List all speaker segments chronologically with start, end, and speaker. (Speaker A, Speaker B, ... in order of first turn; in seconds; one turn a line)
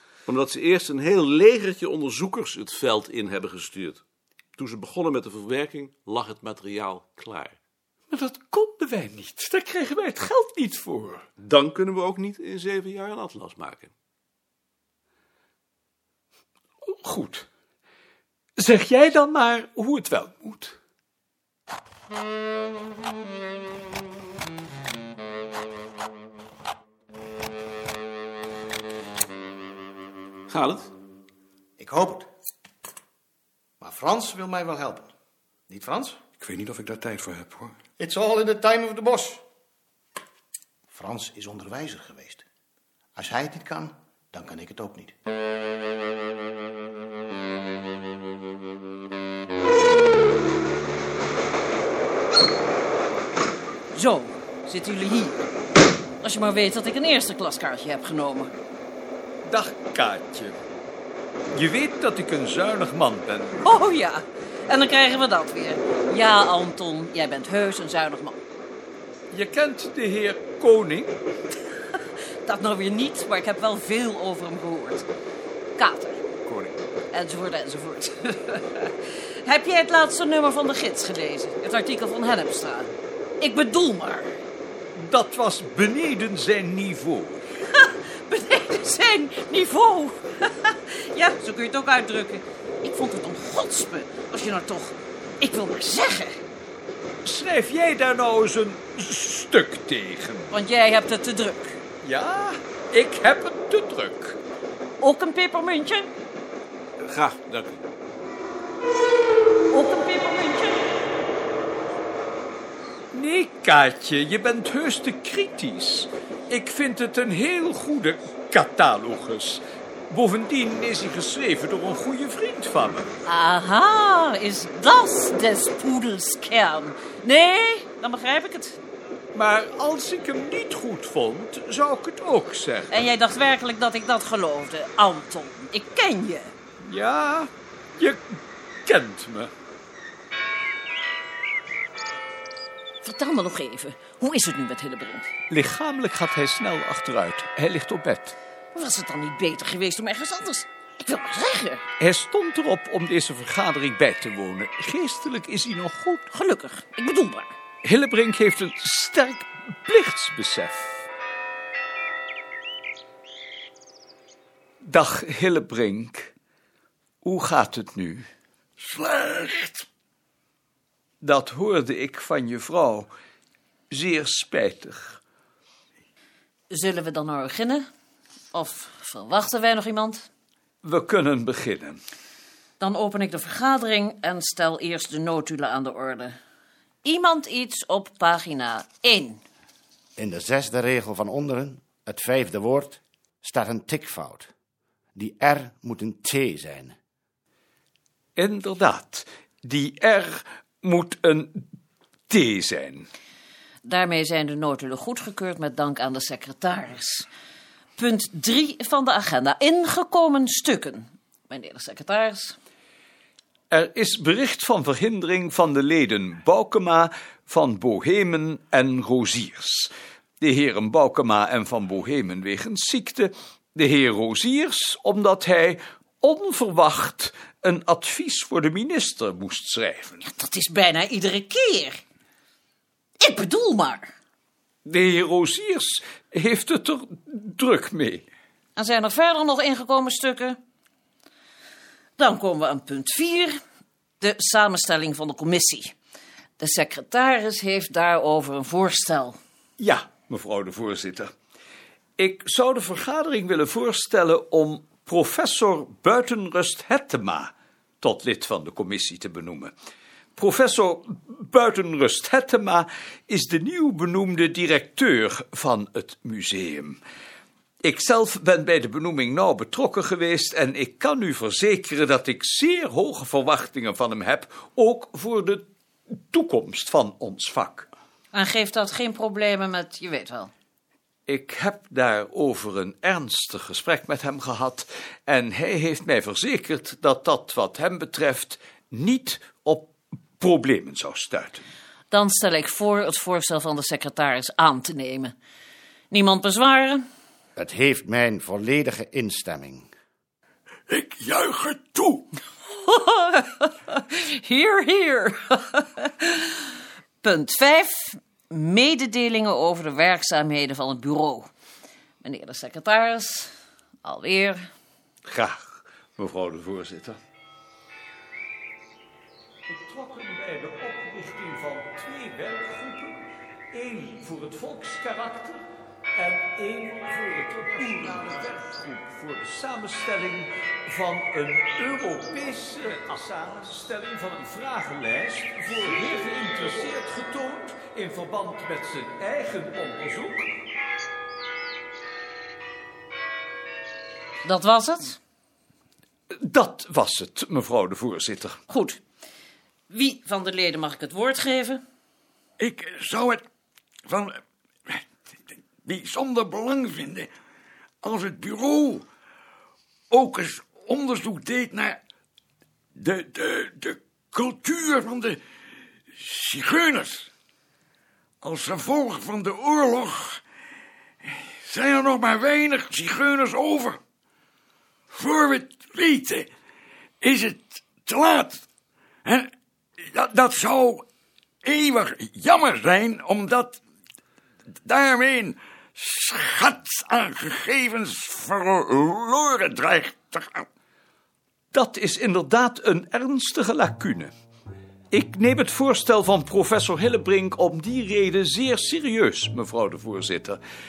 Speaker A: 0.2-4.0
Speaker A: 4.6-7.5
Speaker B: 8.1-11.2
Speaker A: 11.4-13.9
Speaker B: 16.9-17.5
Speaker B: 18.6-20.7
Speaker A: 30.5-30.9
Speaker C: 31.8-32.3
Speaker C: 33.8-35.1
Speaker C: 35.7-36.2
Speaker D: 36.4-37.7
Speaker C: 38.0-39.4
Speaker C: 40.9-42.4
Speaker C: 43.1-45.1
Speaker E: 53.9-55.4
Speaker E: 56.2-58.5
Speaker B: 59.4-60.6
Speaker B: 61.5-63.6
Speaker E: 63.6-68.4
Speaker B: 69.3-71.1
Speaker E: 72.4-75.0
Speaker E: 75.8-76.2
Speaker B: 76.5-76.8
Speaker E: 77.1-84.3
Speaker B: 84.9-87.4
Speaker E: 87.6-96.4
Speaker B: 97.2-100.5
Speaker E: 100.5-101.8
Speaker B: 102.0-104.4
Speaker E: 105.0-106.1
Speaker A: 107.1-107.8
Speaker E: 109.7-110.9
Speaker B: 113.1-123.1
Speaker E: 123.2-128.8
Speaker B: 129.3-132.9
Speaker E: 132.9-136.5
Speaker B: 136.8-139.5
Speaker E: 143.0-145.3
Speaker B: 145.5-148.3
Speaker E: 148.7-151.8
Speaker B: 152.0-156.3
Speaker E: 156.3-157.5
Speaker B: 157.8-161.0
Speaker B: 164.8-166.3
Speaker B: 167.2-168.2
Speaker D: 168.8-169.8
Speaker B: 171.2-173.1
Speaker B: 173.9-175.2
Speaker E: 176.7-177.8
Speaker E: 178.5-180.2
Speaker B: 180.8-182.0
Speaker E: 182.8-186.3
Speaker E: 187.0-189.4
Speaker F: 190.2-194.5
Speaker F: 195.2-196.9
Speaker B: 198.4-201.6
Speaker B: 202.3-203.1
Speaker E: 203.8-207.3
Speaker E: 207.9-212.6
Speaker B: 213.7-230.2
Speaker E: 230.2-232.0
Speaker E: 233.2-234.1
Speaker B: 234.8-238.2
Speaker E: 238.8-240.6
Speaker E: 242.2-243.6
Speaker E: 244.2-245.9
Speaker E: 246.6-249.4
Speaker B: 249.8-251.3
Speaker B: 252.2-259.7
Speaker B: 260.4-267.0
Speaker B: 267.8-277.9
Speaker E: 278.3-280.5
Speaker B: 281.3-291.6
Speaker E: 292.1-295.3
Speaker E: 296.1-297.0
Speaker F: 297.6-299.9
Speaker D: 300.9-302.2
Speaker E: 302.7-306.7
Speaker E: 307.2-311.5
Speaker E: 312.2-313.5
Speaker E: 314.0-314.6
Speaker B: 315.2-317.2
Speaker B: 319.7-325.6
Speaker B: 326.1-340.5
Speaker E: 344.4-345.2
Speaker B: 346.3-348.6
Speaker E: 348.7-349.0
Speaker E: 349.9-351.8
Speaker D: 352.6-353.4
Speaker D: 354.1-357.3
Speaker D: 358.0-359.1
Speaker D: 360.1-362.0
Speaker D: 362.9-365.4
Speaker D: 366.1-367.3
Speaker D: 368.4-370.4
Speaker D: 371.2-374.0
Speaker D: 375.1-376.5
Speaker D: 377.2-378.6
Speaker D: 379.2-381.1
Speaker D: 381.6-383.8
Speaker D: 384.8-390.6
Speaker B: 391.7-394.3
Speaker B: 395.1-400.6